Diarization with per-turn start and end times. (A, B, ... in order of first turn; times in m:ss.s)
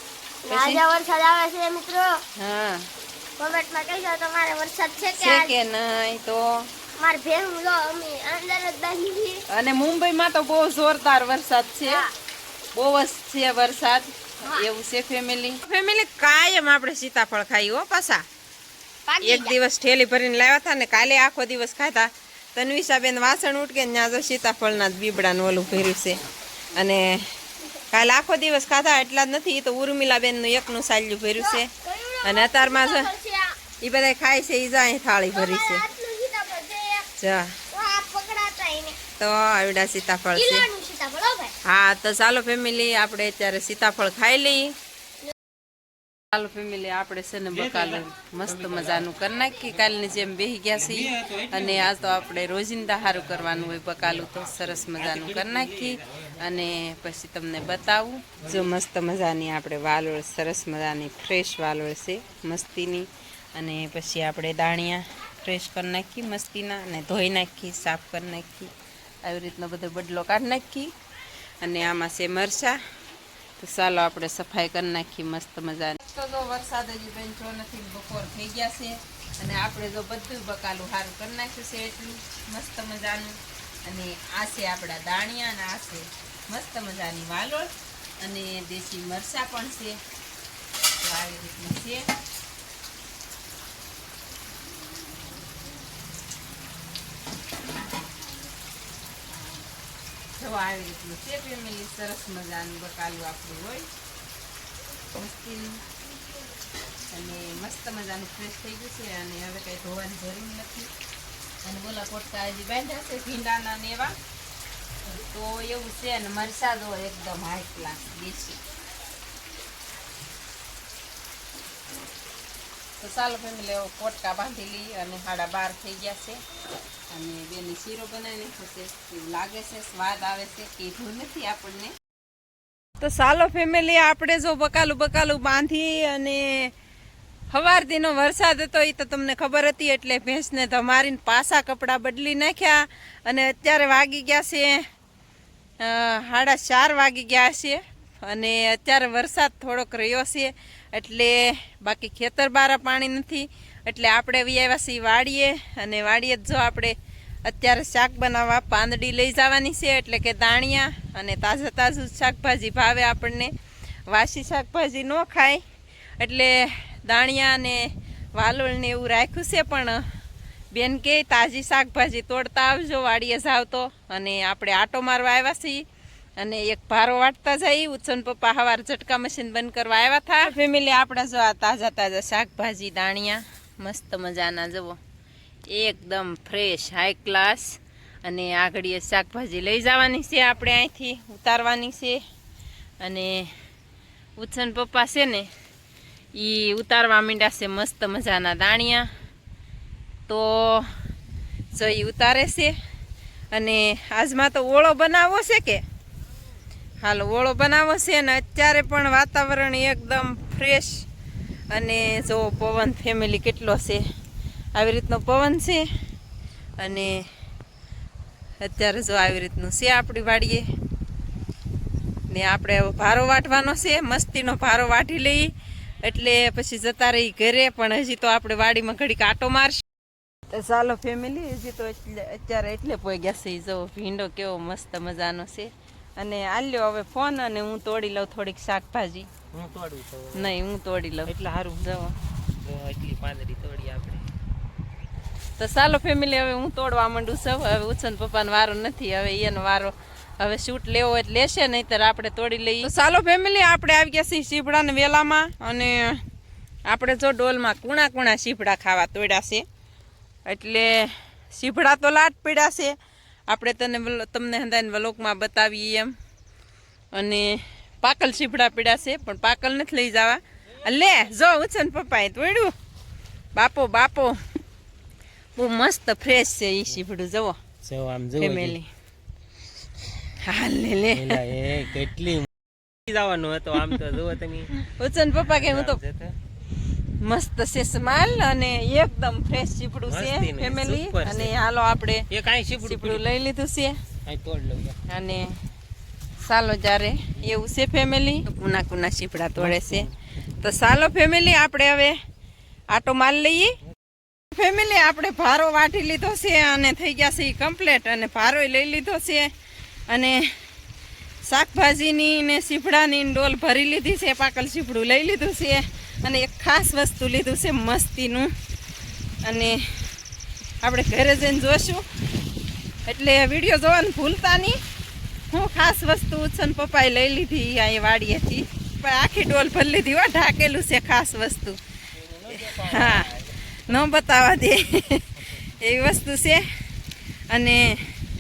0:00.4-0:02.2 A
0:00.5-0:00.8 B
0:02.4-0:02.9 B
0:03.4-0:05.6 A
0:05.2-0:06.7 B
0:07.0-0:09.4 A
0:09.5-0:12.1 B
0:12.7-0:18.2 B
0:19.1-0:19.6 A
0:19.2-0:26.2 B
0:26.7-0:27.3 B
0:27.9-0:31.7 B
0:31.4-0:33.6 A
0:32.2-0:33.1 B
0:33.8-0:35.9 B
0:35.3-0:37.1 A
0:37.2-0:37.6 B
0:37.7-0:39.0 A
0:39.2-0:40.7 B
0:40.3-0:41.6 A
0:41.6-0:44.7 B
0:46.3-1:08.7 B
1:09.2-1:10.9 B
1:11.6-1:12.8 B
1:13.6-1:30.0 B
1:31.0-1:32.1 B
1:40.4-1:43.9 B
1:45.1-1:45.8 B
1:47.1-1:50.9 B
1:51.6-1:54.2 B
1:55.1-1:58.6 B
2:03.0-2:06.4 B
2:07.1-2:12.0 B
2:13.0-2:16.7 B
2:17.5-2:24.9 B
2:25.8-2:43.5 B
2:44.1-2:45.6 B
2:46.2-2:50.0 B
2:50.7-2:55.8 B
2:56.4-3:05.0 B
3:05.7-3:12.2 B
3:13.0-3:13.5 B
3:14.4-3:15.5 B
3:16.4-3:19.1 B
3:20.3-3:20.9 B
3:21.7-3:22.7 B
3:23.5-3:25.8 B
3:27.0-3:31.0 B
3:31.7-3:34.0 B
3:34.8-3:35.9 B
3:36.8-3:37.2 B
3:38.6-3:40.6 B
3:42.3-3:45.5 B
3:46.0-3:49.8 B
3:50.5-3:59.3 B
3:59.5-4:00.5 C
4:00.4-4:01.3 B
4:01.3-4:04.2 C
4:05.6-4:16.2 B
4:16.9-4:19.6 B
4:20.5-4:23.0 B
4:23.5-4:26.1 B
4:27.1-4:32.7 B
4:33.6-4:34.4 B
4:35.6-4:37.6 B
4:37.8-4:38.8 C
4:38.4-4:38.9 B
4:40.4-4:41.4 B
4:41.1-4:42.5 C
4:43.1-4:44.7 C
4:44.7-4:46.0 B
4:45.4-4:46.4 C
4:47.2-4:54.0 B
4:50.1-4:51.5 C
4:52.3-4:53.2 C
4:54.3-4:55.0 C
4:55.1-4:55.6 B
4:56.4-5:00.1 B
4:59.6-5:00.1 C
5:00.6-5:02.2 B
5:02.9-5:03.8 B
5:04.5-5:09.5 B
5:10.1-5:10.6 B
5:11.5-5:18.5 B
5:19.4-5:20.0 B
5:20.8-5:22.0 B
5:23.1-5:24.8 B
5:25.5-5:31.8 B
5:32.2-5:33.5 C
5:32.6-5:33.4 B
5:33.9-5:36.7 B
5:37.5-5:38.2 B